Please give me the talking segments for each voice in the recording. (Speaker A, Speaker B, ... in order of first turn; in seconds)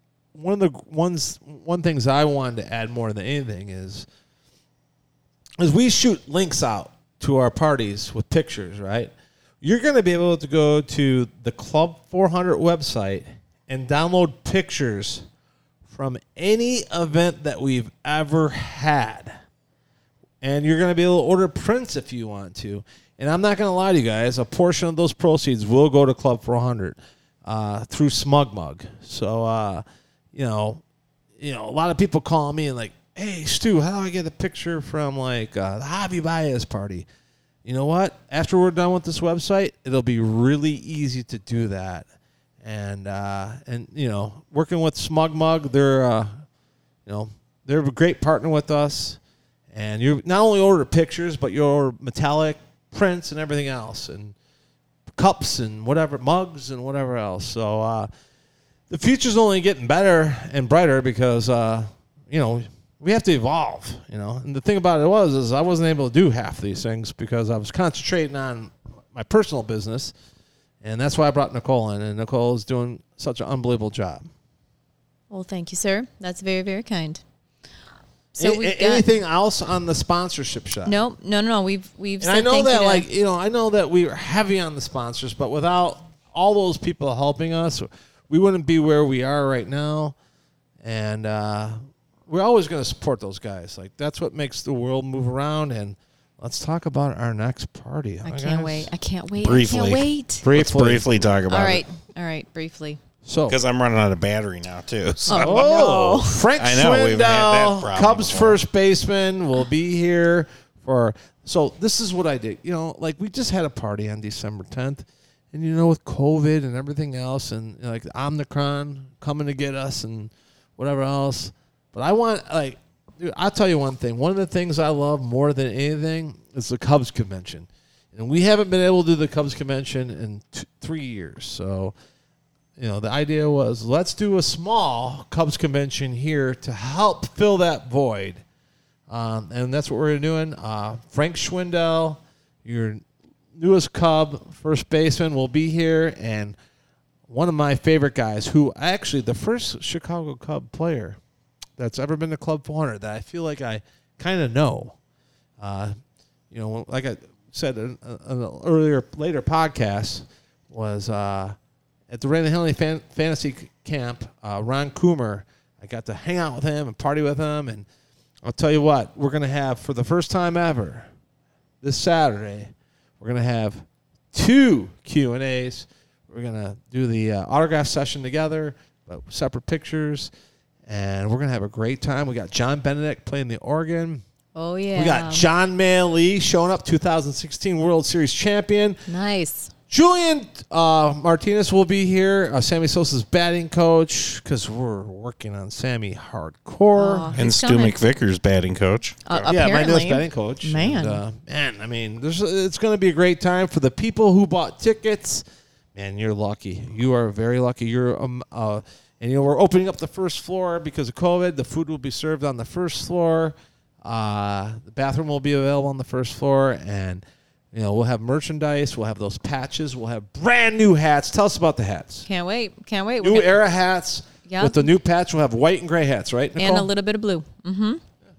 Speaker A: 0.3-4.1, 5.6-15.2, 15.9-19.4, 20.4-30.8, 31.4-37.1, 37.6-42.1, 42.6-46.4, 47.1-49.2, 49.7-54.4, 55.1-58.1, 58.9-70.1, 70.8-74.3, 78.4-81.0, 82.2-90.2, 90.8-98.9, 100.4-101.1, 103.2-103.6, 105.3-131.9, 132.8-138.4, 139.1-143.0, 143.6-146.6, 147.3-151.2, 151.8-155.0, 155.6-155.9, 156.5-161.6, 162.1-167.9, 168.4-171.1, 171.8-180.3, 180.9-184.2, 184.9-189.0, 189.9-197.3, 199.5-205.4, 205.9-222.3, 223.2-226.9
Speaker B: 75.3-77.2, 78.4-79.1, 80.9-83.1, 98.2-100.5, 101.5-103.0, 105.3-106.4, 184.6-185.5, 189.1-189.7, 197.0-198.0, 199.3-201.2, 222.3-223.5, 224.5-224.9, 226.6-228.0
Speaker C: 99.4-101.9, 103.5-105.9, 106.6-108.6, 197.4-199.5